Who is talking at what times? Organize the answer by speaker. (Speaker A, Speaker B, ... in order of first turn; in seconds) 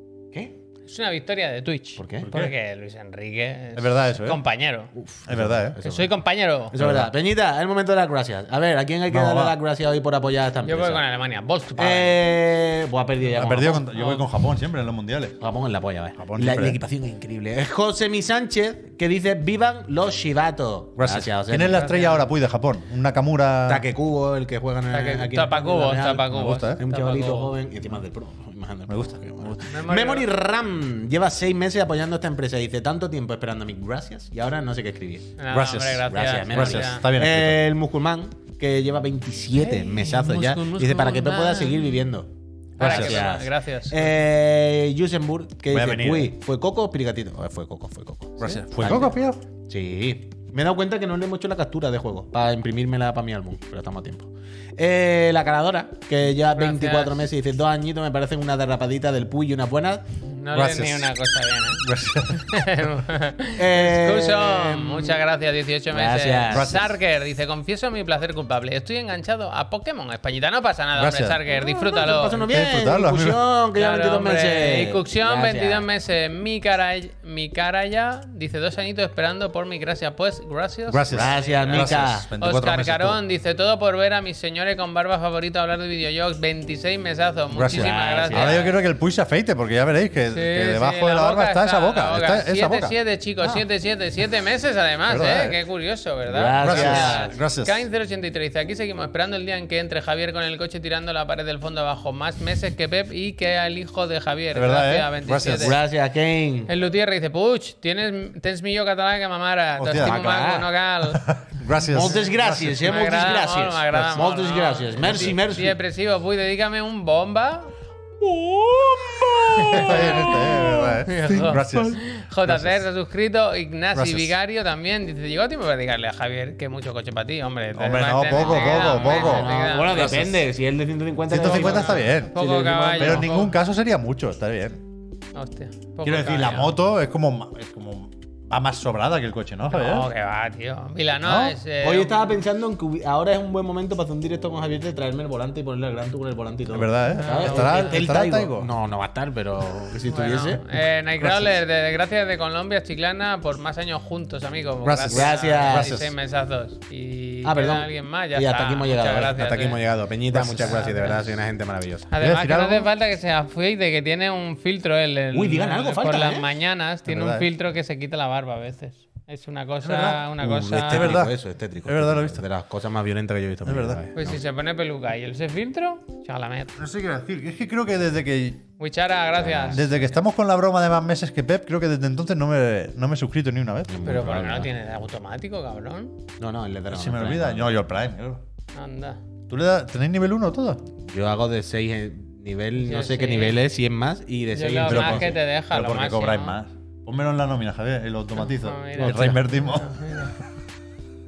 Speaker A: 0.8-4.9, 5.8-6.8, 10.6-12.2, 13.9-14.2, 21.6-22.3, 24.9-27.5, 29.6-30.3, 35.4-37.0, 39.6-41.9, 42.8-44.1, 56.5-57.1, 60.3-72.4, 73.8-88.7, 90.3-105.8, 106.7-111.2, 112.8-117.7, 119.5-130.3, 131.4-133.5, 135.3-136.7, 139.7-142.2, 147.1-148.0, 150.0-159.8, 160.6-161.2, 162.1-171.2, 174.2-176.7, 178.8-180.0, 184.0-186.1, 188.7-189.2, 192.8-193.6, 194.5-196.5, 198.4-200.3
Speaker B: 2.0-2.3, 4.9-6.1, 6.7-11.0, 11.8-13.9, 15.4-21.9, 23.7-35.4, 36.0-49.1, 49.7-60.0, 63.6-65.2, 65.9-66.8, 71.5-75.9, 81.1-82.3, 87.7-88.7, 96.2-97.2, 105.5-106.7, 109.9-110.7, 111.9-115.8, 118.2-120.9, 128.3-133.4, 141.8-150.6, 155.1-155.9, 157.4-162.1, 165.3-166.5, 170.5-174.4, 179.4-179.8, 183.9-184.7, 186.4-187.7, 191.1-195.3, 199.0-199.4
Speaker C: 2.2-2.5, 3.8-4.4, 5.3-5.8, 6.7-7.1, 9.1-9.6, 13.4-15.4, 16.2-16.8, 21.0-23.8, 26.3-26.8, 28.9-29.6, 35.5-37.6, 42.8-43.2, 45.7-46.3, 48.4-49.4, 60.5-61.1, 61.8-62.7, 66.5-66.9, 71.0-71.4, 72.4-73.4, 80.9-83.2, 87.5-93.0, 95.1-95.6, 96.6-97.8, 104.5-105.8, 109.8-110.2, 111.1-113.1, 115.0-115.4, 119.7-122.7, 123.9-124.3, 127.7-130.4, 131.3-132.4, 133.0-134.8, 136.0-140.1, 141.2-141.6, 146.7-148.7, 151.2-151.5, 154.8-156.1, 160.3-160.8, 162.2-162.9, 167.1-167.5, 169.8-171.3, 171.8-172.4, 173.7-174.0, 176.8-178.6, 179.6-183.9, 186.9-188.4, 189.5-190.8, 194.8-200.4